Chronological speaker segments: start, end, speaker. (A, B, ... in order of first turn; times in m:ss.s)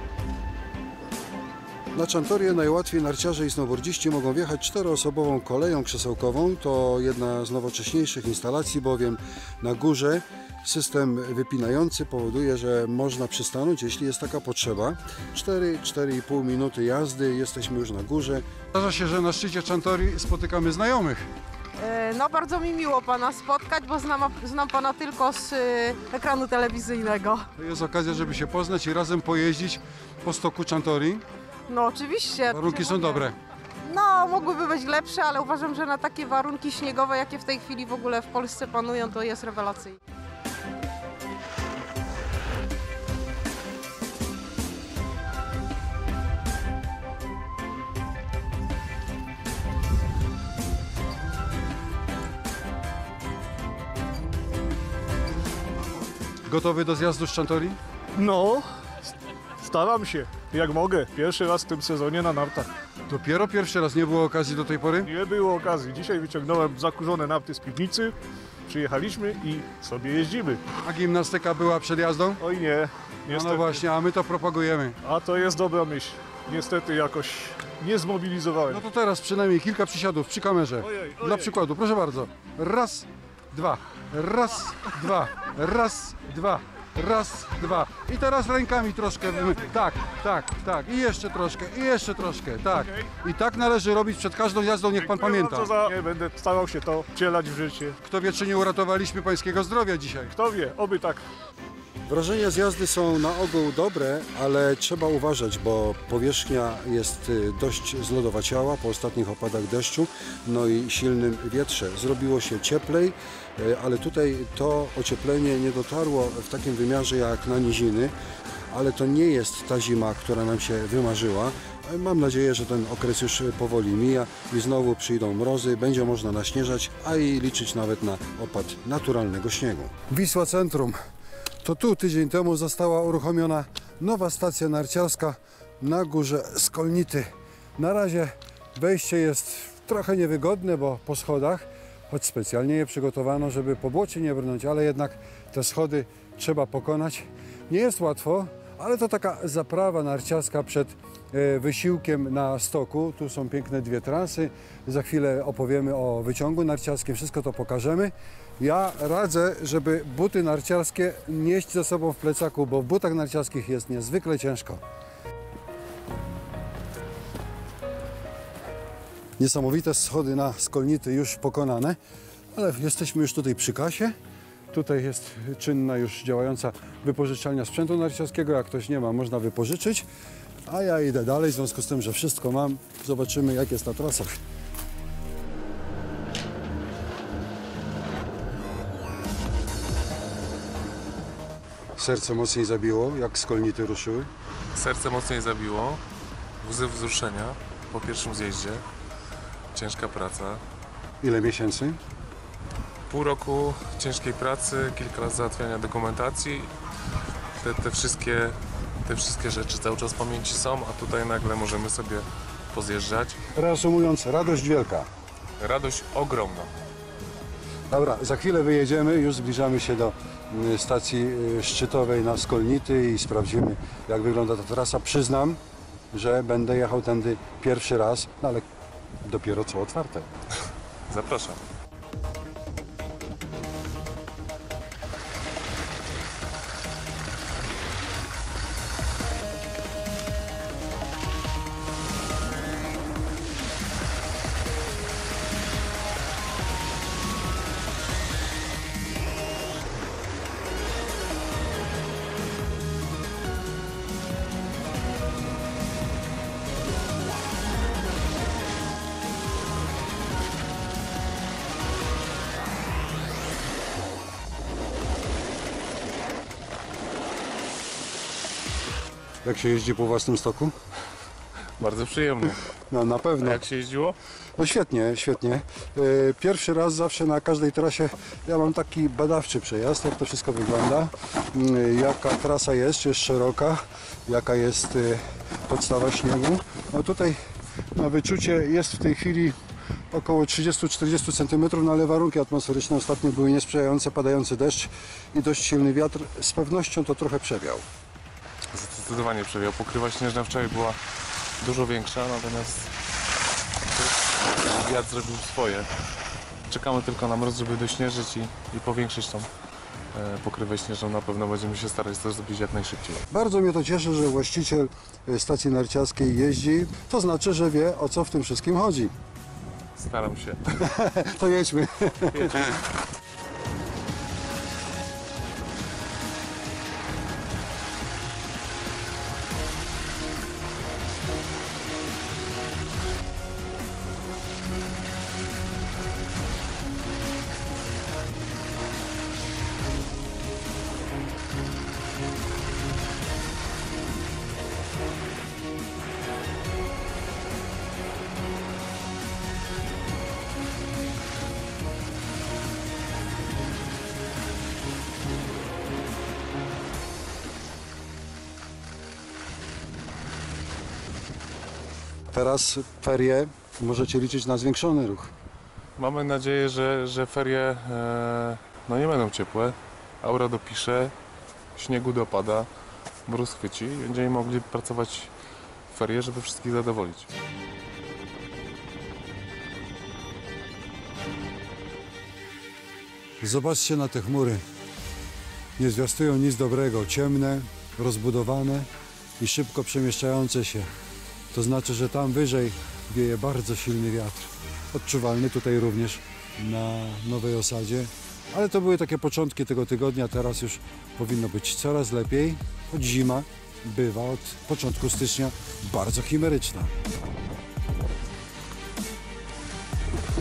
0:01.9-0:21.2 A
0:21.8-0:27.5 B
0:27.6-0:31.2 A
0:31.7-0:33.3 B
0:32.5-0:33.4 A
0:33.8-0:40.0 B
0:56.5-0:57.8 A
0:58.2-0:58.6 C
0:59.6-1:02.7 C
1:03.1-1:05.1 A
1:05.0-1:08.1 C
1:08.7-1:10.6 C
1:10.8-1:12.4 A
1:12.4-1:13.8 C
1:13.3-1:15.0 A
1:15.0-1:18.8 C
1:18.7-1:35.8 A
1:20.8-1:21.5 C
1:35.0-1:38.0 C
1:38.0-1:40.3 A
1:40.3-1:41.2 C
1:42.0-1:58.1 A
1:58.7-2:11.0 A
2:11.6-2:44.8 A
2:49.4-2:52.0 A
2:52.5-2:54.1 A
2:54.7-3:00.0 A
3:00.7-3:04.4 A
3:12.0-3:14.3 A
3:14.7-3:16.0 D
3:16.6-3:18.8 D
3:19.7-3:20.6 D
3:21.2-3:22.0 A
3:23.1-3:26.7 D
3:27.6-3:33.4 D
3:33.5-3:35.1 A
3:35.6-3:36.7 D
3:37.9-3:45.6 A
3:46.1-3:48.6 A
3:49.2-3:50.3 A
3:51.1-3:51.6 D
4:29.4-4:30.7 A
4:31.8-4:32.6 D
4:32.9-4:33.6 A
4:33.4-4:34.2 D
4:34.6-4:47.4 A
4:47.9-4:49.6 A
4:50.1-4:57.8 A
4:58.7-5:01.0 D
5:01.6-5:02.9 D
5:04.0-5:05.9 D
5:06.7-5:09.5 D
5:10.1-5:13.2 D
5:13.3-5:19.1 A
5:20.0-5:20.6 D
5:20.8-5:22.7 A
5:22.3-5:22.6 D
6:02.3-6:05.3 A
6:06.0-6:11.1 D
6:11.7-6:12.7 D
6:13.2-6:15.3 D
6:15.9-6:17.3 D
6:23.4-6:24.6 A
6:25.8-6:30.9 A
6:31.5-6:46.9 A